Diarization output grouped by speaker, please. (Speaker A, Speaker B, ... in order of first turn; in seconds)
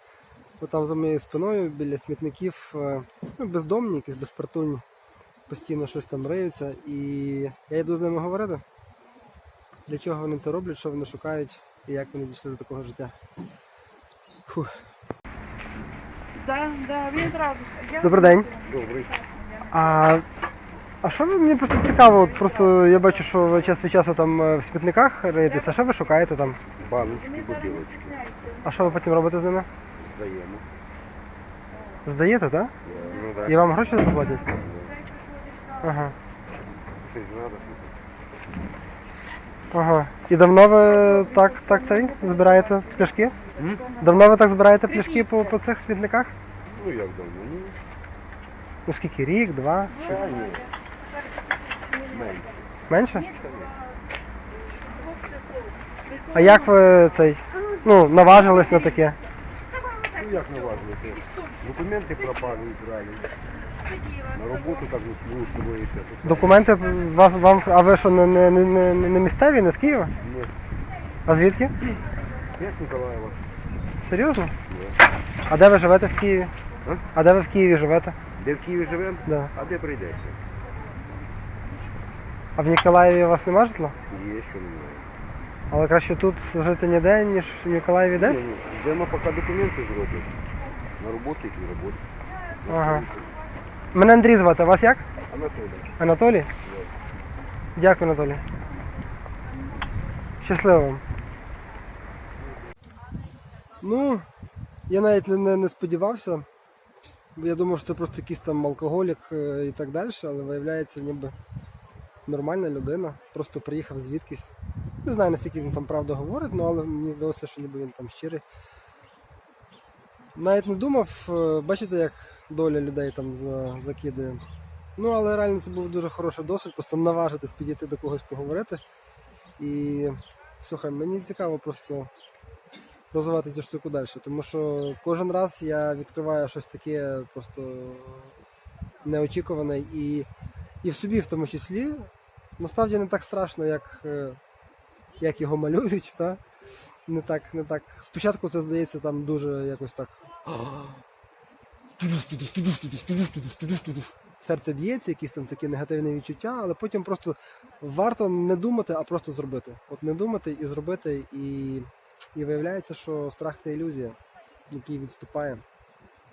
Speaker A: 0.6-4.8, 5.5-8.6, 9.9-13.2, 14.5-14.8, 17.9-18.5, 19.7-20.3, 21.0-26.6, 28.6-29.7, 32.0-32.7, 33.5-34.6, 35.8-36.1, 39.7-43.4, 44.0-46.3, 48.9-50.1, 52.9-53.3, 56.3-59.2, 66.2-70.1, 71.3-71.7, 74.0-74.5, 75.5-76.5, 77.1-78.2, 79.3-79.5, 82.6-84.0, 85.7-88.4, 92.7-93.1, 93.9-95.0, 96.0-96.5, 97.8-98.4, 100.4-101.0, 103.8-104.3, 104.9-106.5, 107.3-111.4, 112.3-118.4, 120.3-124.4, 125.0-128.8, 129.6-132.1, 133.1-138.3, 139.0-140.3, 140.8-144.4, 145.2-146.4, 147.1-150.2, 154.4-164.2, 164.7-165.6
Speaker B: 16.4-18.0, 28.2-28.5, 51.5-52.0, 54.9-56.2
Speaker C: 18.6-19.2, 26.8-28.3, 30.0-30.7, 32.8-33.9, 34.6-35.0, 36.9-38.0, 43.6-43.8, 46.7-47.8, 49.9-50.7, 52.1-52.6, 53.3-53.7, 60.1-63.3, 64.3-66.7, 70.2-70.5, 72.5-73.5, 74.7-75.0, 78.4-80.4, 84.1-85.0, 88.1-90.3, 91.0-92.0, 92.6-93.3, 95.3-95.9